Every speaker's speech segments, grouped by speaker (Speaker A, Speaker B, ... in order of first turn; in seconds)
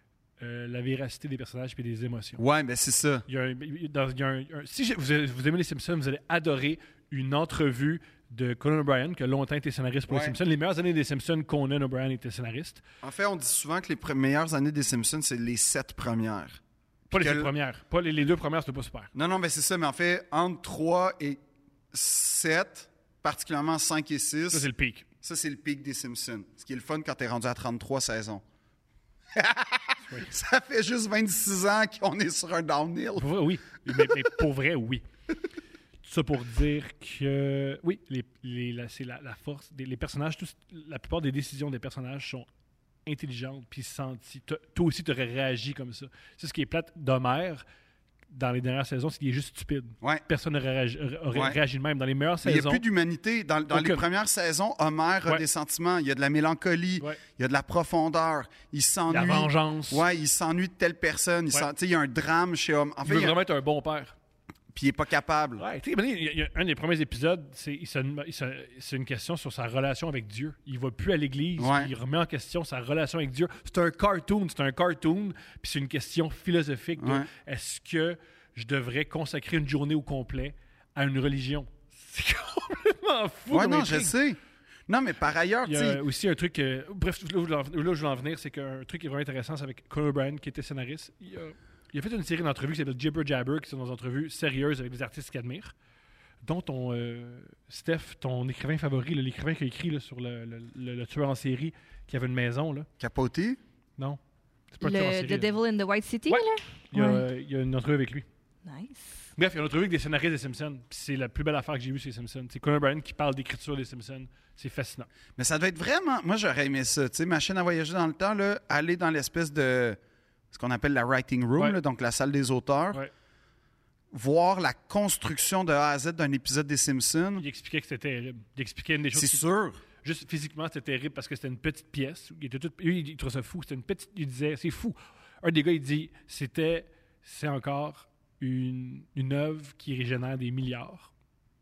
Speaker A: 0.4-2.4, 3.3-12.8, 17.1-19.1, 24.5-25.1, 33.2-35.0, 36.0-42.5, 43.0-47.6, 48.3-52.8, 53.7-54.0, 59.1-60.0, 63.0-64.2, 65.6-84.1, 85.7-95.7, 96.4-102.9, 104.7-105.5, 106.3-108.3, 109.4-115.1, 127.4-129.4, 130.0-141.1
Speaker B: 2.4-3.3, 10.1-10.4, 13.0-17.5, 19.1-21.4, 21.9-24.7, 25.2-28.4, 29.4-33.3, 52.4-63.4, 64.7-65.6, 71.6-71.9, 77.0-77.3, 83.5-86.0, 103.0-103.6, 115.4-120.0, 120.5-123.0, 124.1-127.4, 129.1-129.8
Speaker C: 104.8-107.3, 108.6-109.3